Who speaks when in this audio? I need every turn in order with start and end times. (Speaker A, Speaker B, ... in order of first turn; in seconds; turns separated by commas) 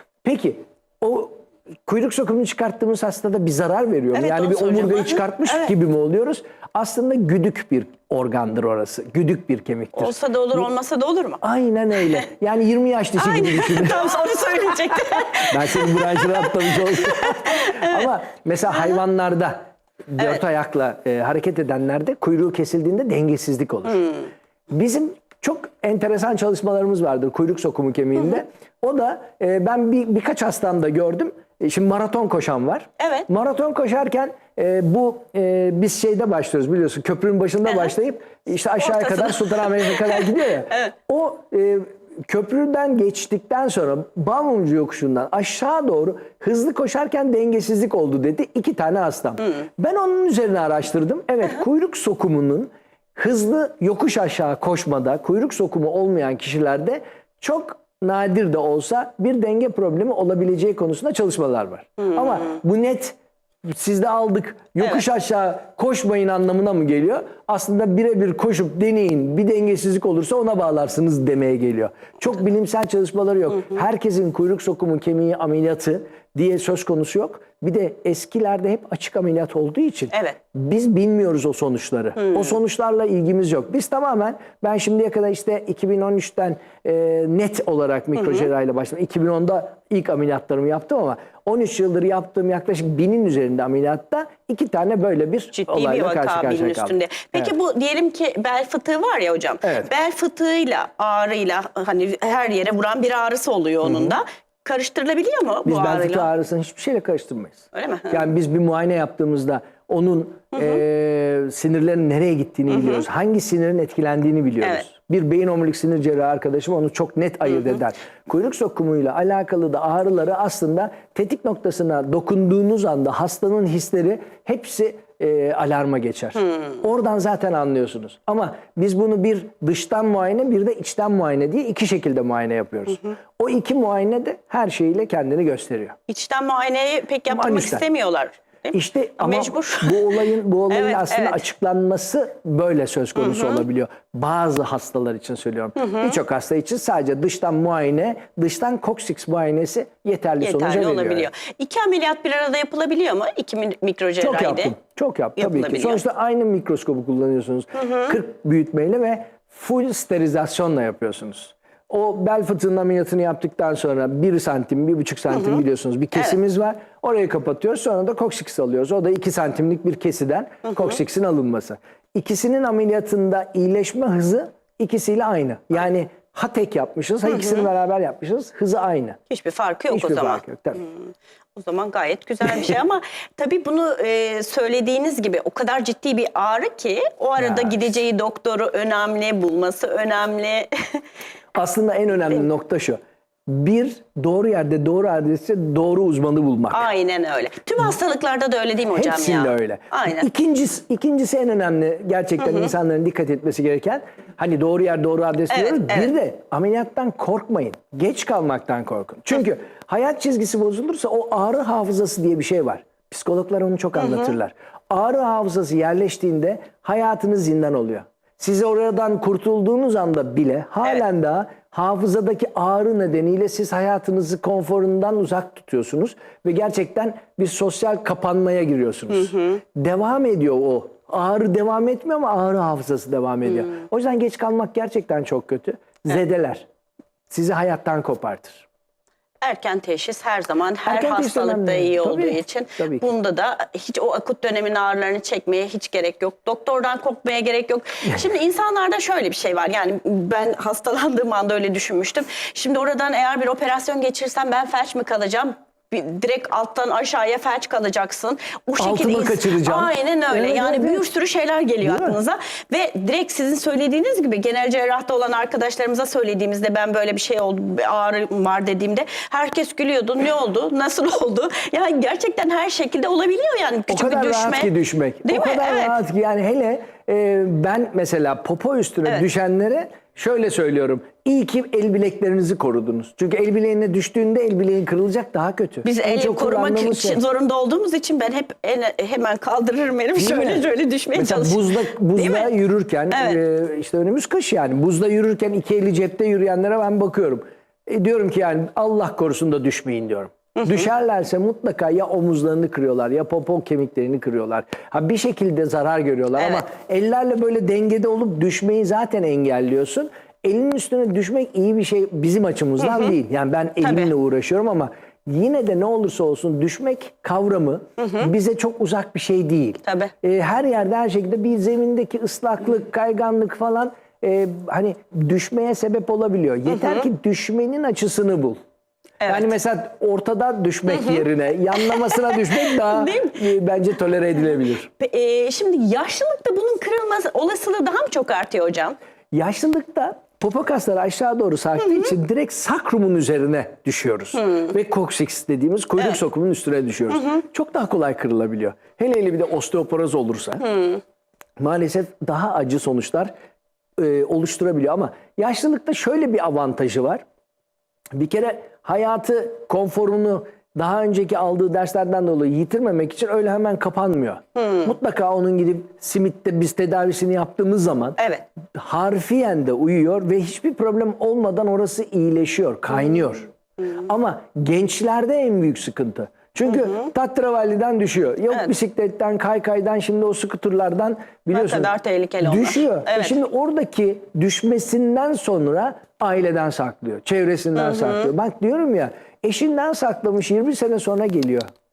Speaker A: 0.2-10.7, Speaker B: 4.2-5.7, Speaker B: 9.9-11.4, Speaker A: 11.4-97.5, Speaker B: 13.2-18.0, Speaker B: 33.0-33.3, Speaker B: 38.8-40.2, Speaker B: 82.2-82.5, Speaker B: 95.5-106.3, Speaker A: 99.6-99.9, Speaker A: 103.8-104.2, Speaker A: 105.7-136.0, Speaker B: 107.7-108.2, Speaker B: 136.1-141.4, Speaker A: 137.3-137.9, Speaker A: 138.7-151.3, Speaker B: 143.2-143.6, Speaker B: 145.8-146.2, Speaker B: 150.4-154.7, Speaker A: 154.2-179.2, Speaker B: 155.4-156.0, Speaker B: 157.8-158.1, Speaker B: 179.3-191.0, Speaker A: 179.9-180.9, Speaker A: 187.4-188.0, Speaker A: 191.6-196.9, Speaker B: 196.7-200.3, Speaker A: 198.9-236.7, Speaker B: 205.5-206.1, Speaker A: 237.3-238.7, Speaker B: 239.4-274.7, Speaker A: 240.8-243.1, Speaker A: 258.8-261.1, Speaker A: 261.8-262.2, Speaker A: 273.9-287.2, Speaker B: 275.2-276.0, Speaker B: 285.8-292.5, Speaker A: 290.2-328.6, Speaker B: 293.1-293.4, Speaker B: 300.6-300.9, Speaker B: 306.4-306.6, Speaker B: 313.8-314.1, Speaker B: 318.0-318.3, Speaker B: 319.9-320.1, Speaker B: 329.2-329.5, Speaker A: 329.3-334.9, Speaker B: 330.9-331.2, Speaker B: 331.8-333.4, Speaker B: 335.0-339.0, Speaker A: 339.3-350.8, Speaker A: 351.6-353.3, Speaker A: 354.0-357.2, Speaker A: 358.1-368.2, Speaker B: 364.6-364.9, Speaker B: 368.2-368.4, Speaker A: 368.7-391.7, Speaker B: 381.5-383.4, Speaker B: 387.8-388.3